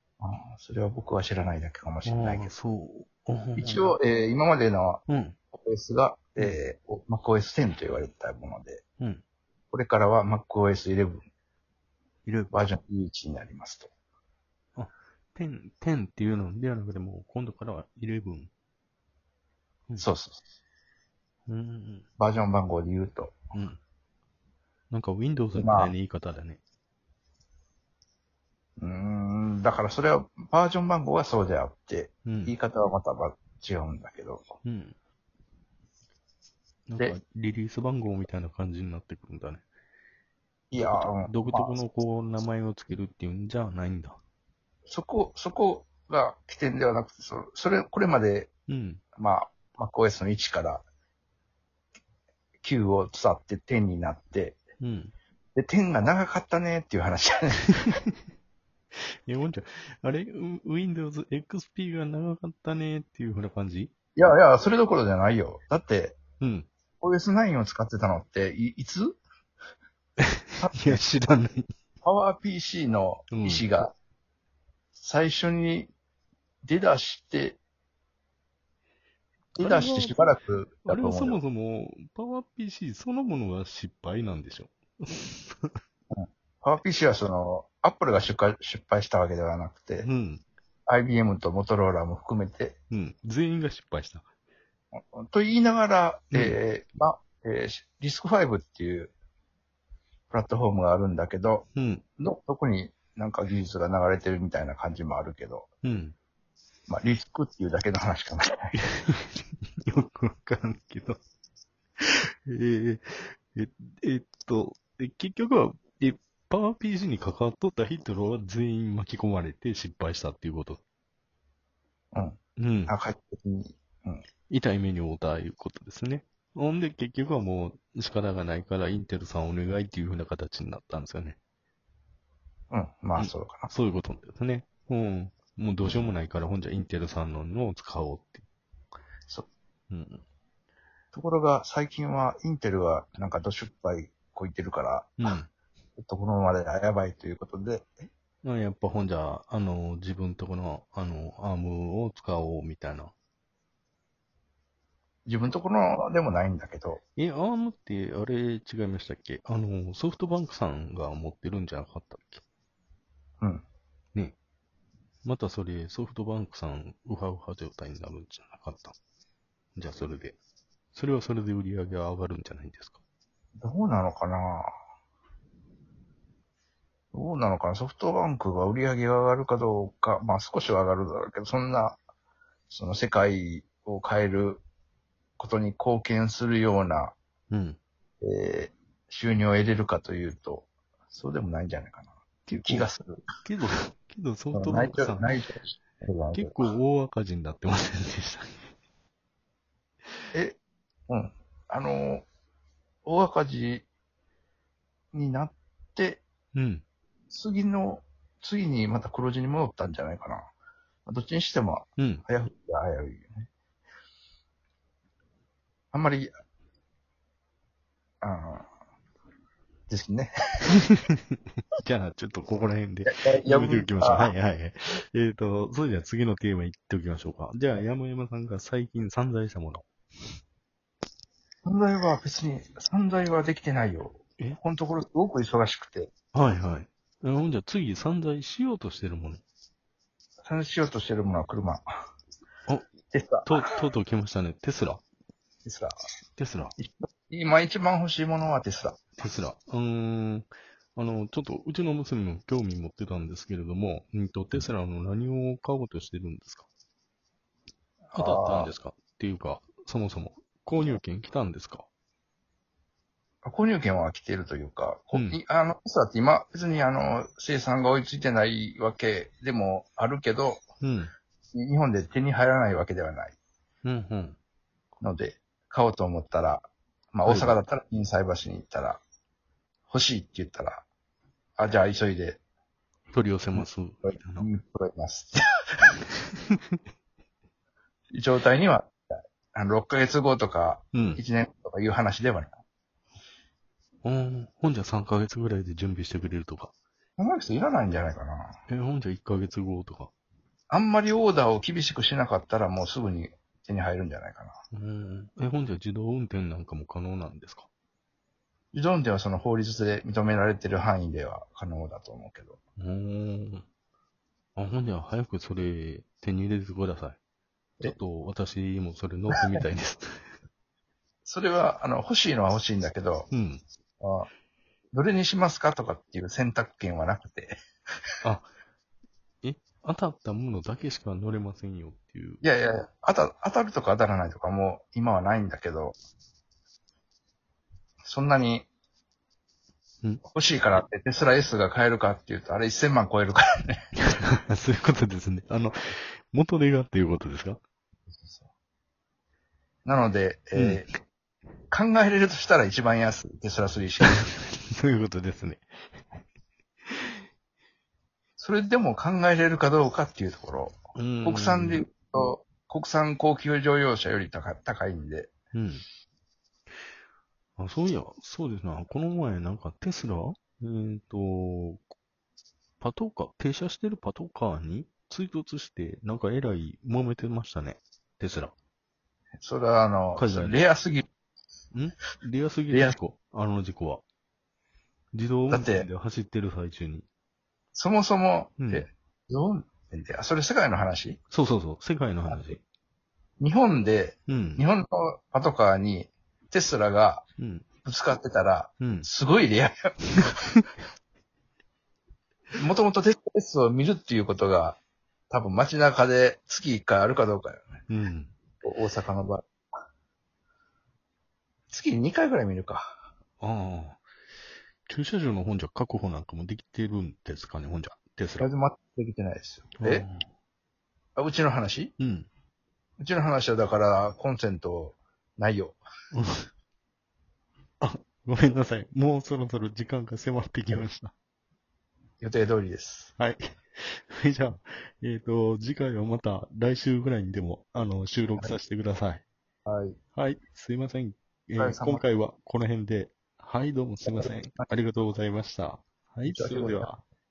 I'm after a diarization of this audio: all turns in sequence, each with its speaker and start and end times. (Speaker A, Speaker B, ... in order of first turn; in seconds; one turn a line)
Speaker A: 0.2-2.5
Speaker B: 2.0-3.9
Speaker A: 3.6-5.0
Speaker B: 5.1-5.4
Speaker A: 5.5-8.8
Speaker A: 9.7-11.2
Speaker B: 12.2-12.6
Speaker A: 12.5-13.9
Speaker B: 14.8-18.5
Speaker A: 20.0-20.4
Speaker B: 21.5-22.1
Speaker A: 22.2-23.4
Speaker B: 23.5-23.8
Speaker B: 24.9-26.6
Speaker A: 25.6-25.9
Speaker A: 28.8-34.5
Speaker B: 32.2-32.5
Speaker B: 34.6-34.9
Speaker B: 36.9-39.6
Speaker A: 40.7-41.8
Speaker B: 40.8-44.2
Speaker A: 44.9-48.5
Speaker B: 48.7-49.0
Speaker A: 49.2-50.8
Speaker A: 52.6-54.6
Speaker B: 54.8-55.1
Speaker A: 55.6-57.6
Speaker B: 59.2-63.9
Speaker A: 64.2-66.2
Speaker B: 66.4-66.7
Speaker A: 67.0-69.2
Speaker A: 70.6-71.0
Speaker B: 70.7-71.7
Speaker A: 72.0-73.9
Speaker B: 73.3-73.7
Speaker A: 74.9-75.9
Speaker A: 76.6-77.6
Speaker B: 79.6-80.3
Speaker A: 79.6-81.4
Speaker B: 80.9-85.8
Speaker A: 86.1-90.1
Speaker B: 90.0-90.4
Speaker A: 90.9-92.8
Speaker B: 92.9-94.2
Speaker A: 95.0-99.1
Speaker B: 96.3-96.6
Speaker A: 100.3-101.7
Speaker B: 101.8-102.0
Speaker A: 102.2-105.7
Speaker B: 105.8-106.2
Speaker A: 106.9-108.7
Speaker B: 108.8-111.2
Speaker B: 112.0-120.8
Speaker A: 122.1-124.2
Speaker B: 122.6-122.9
Speaker B: 124.5-131.4
Speaker A: 132.7-133.7
Speaker B: 133.2-138.4
Speaker B: 139.9-140.2
Speaker A: 141.1-145.2
Speaker B: 145.2-145.5
Speaker A: 146.0-147.9
Speaker B: 148.4-153.1
Speaker A: 155.3-157.0
Speaker B: 157.2-162.4
Speaker B: 165.2-169.0
Speaker B: 169.8-170.4
Speaker B: 170.9-173.0
Speaker A: 173.6-174.7
Speaker A: 177.1-182.0
Speaker A: 182.7-184.6
Speaker A: 185.4-187.2
Speaker B: 187.5-187.8
Speaker A: 188.2-193.2
Speaker B: 192.5-192.9
Speaker B: 193.4-195.3
Speaker A: 194.5-196.6
Speaker B: 196.3-198.6
Speaker A: 200.3-202.3
Speaker A: 203.1-203.9
Speaker A: 205.1-206.2
Speaker B: 206.5-206.8
Speaker A: 207.3-210.5
Speaker A: 211.1-213.5
Speaker B: 212.0-212.2
Speaker A: 215.9-216.3
Speaker A: 218.2-218.7
Speaker A: 219.9-220.7
Speaker B: 221.8-229.8
Speaker A: 223.1-224.3
Speaker A: 231.6-236.1
Speaker B: 236.3-239.4
Speaker A: 240.4-241.8
Speaker A: 243.1-243.8
Speaker B: 243.5-245.0
Speaker A: 245.7-246.0
Speaker B: 246.4-246.7
Speaker A: 246.8-249.1
Speaker B: 249.2-256.7
Speaker B: 258.1-261.9
Speaker A: 258.1-258.7
Speaker A: 263.4-270.6
Speaker B: 265.1-265.4
Speaker B: 270.8-271.1
Speaker A: 271.5-273.4
Speaker B: 273.8-274.4
Speaker A: 275.0-279.0
Speaker B: 277.2-277.6
Speaker A: 279.9-280.9
Speaker A: 281.6-282.4
Speaker B: 283.1-284.5
Speaker A: 284.4-285.4
Speaker A: 288.1-289.0
Speaker A: 289.5-292.6
Speaker B: 290.9-291.2
Speaker B: 294.0-296.7
Speaker A: 297.2-298.6
Speaker B: 298.7-300.1
Speaker A: 300.7-304.6
Speaker B: 304.7-307.7
Speaker A: 308.7-312.6
Speaker B: 312.8-313.6
Speaker B: 314.6-317.2
Speaker B: 317.8-320.2
Speaker A: 319.4-319.6
Speaker A: 321.2-323.3
Speaker B: 323.3-323.6
Speaker A: 324.0-324.3
Speaker A: 324.9-327.5
Speaker B: 328.2-328.5
Speaker B: 329.4-332.4
Speaker A: 332.4-336.0
Speaker A: 338.0-338.7
Speaker A: 340.2-343.8
Speaker B: 344.1-347.6
Speaker A: 348.1-348.5
Speaker A: 349.9-350.9
Speaker B: 350.5-350.8
Speaker A: 351.7-354.2
Speaker B: 354.0-355.7
Speaker B: 356.9-357.2
Speaker A: 358.4-365.3
Speaker B: 360.9-361.8
Speaker B: 365.5-365.9
Speaker B: 367.6-371.9
Speaker B: 372.8-378.5
Speaker A: 379.4-381.1
Speaker B: 380.2-380.6
Speaker B: 381.7-384.0
Speaker A: 382.7-383.0
Speaker B: 385.1-387.1
Speaker A: 385.5-385.9
Speaker A: 387.7-391.2
Speaker B: 388.6-388.9
Speaker B: 391.3-392.6
Speaker A: 392.3-392.5
Speaker A: 393.4-397.2
Speaker B: 394.3-394.6
Speaker B: 397.4-397.6
Speaker A: 397.9-400.3
Speaker B: 398.8-399.1
Speaker A: 402.6-404.8
Speaker A: 405.3-407.7
Speaker B: 407.9-408.3
Speaker A: 408.6-409.5
Speaker A: 411.7-413.0
Speaker B: 413.4-414.0
Speaker B: 414.9-418.5
Speaker A: 418.4-420.1
Speaker B: 419.8-420.3
Speaker A: 421.1-421.9
Speaker B: 422.0-422.3
Speaker A: 423.0-425.8
Speaker B: 426.1-426.5
Speaker B: 427.8-431.1
Speaker A: 432.2-433.1
Speaker B: 433.2-439.2
Speaker A: 439.6-440.0
Speaker B: 440.1-447.0
Speaker A: 441.6-442.0
Speaker A: 444.0-444.7
Speaker A: 446.3-446.9